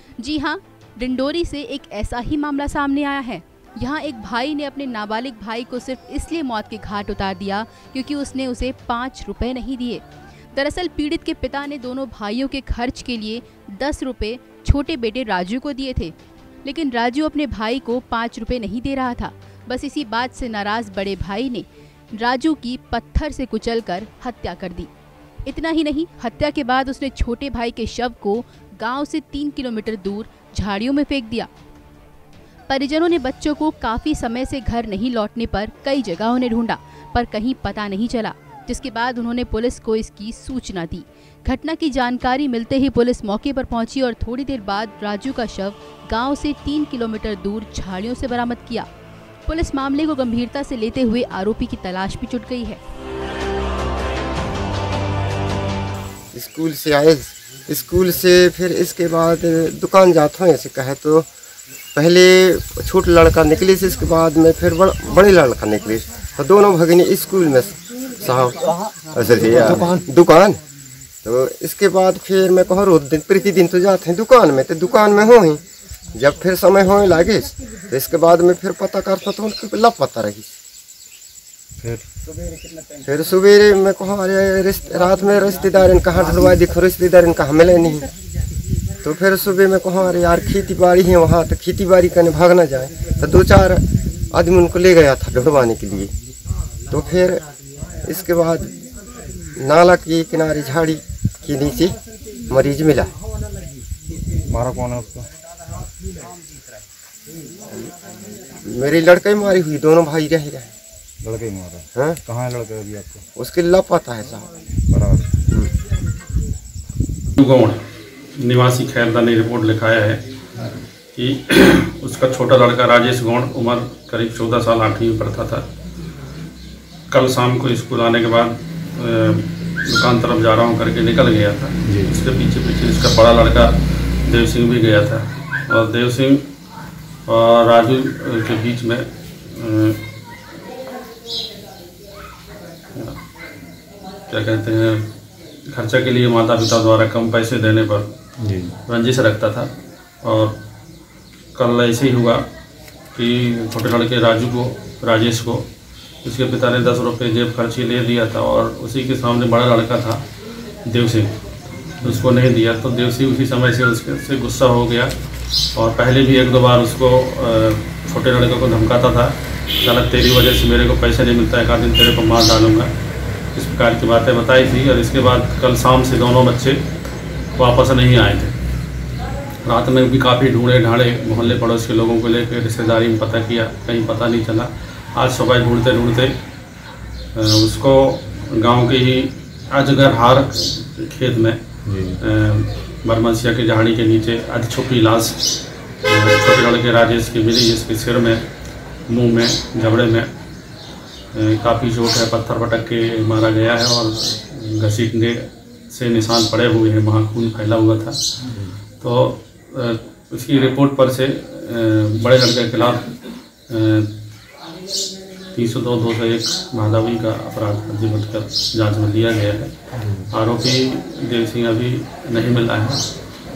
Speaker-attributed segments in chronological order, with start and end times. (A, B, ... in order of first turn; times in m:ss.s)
0:00.2-0:16.1 A
0:16.6-0:24.9 A
0:25.4-0:31.5 A
0:32.7-0:48.9 A
0:49.5-0:52.8 A
0:56.3-1:01.3 B
1:01.9-1:10.6 B
1:11.2-1:15.6 B
1:16.1-1:20.5 B
1:21.8-1:22.1 C
1:23.0-1:28.1 B
1:29.0-1:36.1 B
1:36.9-1:37.4 B
1:38.0-1:38.7 B
1:39.6-1:42.0 B
1:42.5-1:43.1 B
1:44.5-1:45.3 C
1:48.6-1:50.7 B
1:51.2-1:53.2 C
1:51.9-1:52.2 B
1:53.4-1:54.5 B
1:54.9-1:55.4 C
1:57.4-1:57.8 D
1:58.4-2:00.2 D
2:01.1-2:05.7 D
2:07.1-2:16.4 D
2:11.8-2:12.2 C
2:17.2-2:20.0 D
2:24.3-2:25.1 D
2:25.7-2:28.2 D
2:28.4-2:28.7 C
2:28.9-2:30.6 D
2:31.5-2:32.5 D
2:33.1-2:35.7 D
2:36.2-2:40.2 D
2:40.9-2:41.3 D
2:42.0-2:45.1 D
2:45.7-2:52.9 D
2:53.5-2:56.8 D
2:57.6-2:58.5 D
2:59.6-3:06.4 D
3:07.3-3:11.6 D
3:11.8-3:12.2 C
3:12.2-3:18.4 D
3:19.1-3:20.3 D
3:21.3-3:28.2 D
3:28.4-3:28.7 C
3:29.0-3:34.1 D
3:35.5-3:39.7 D
3:40.0-3:40.2 C
3:40.3-3:43.1 D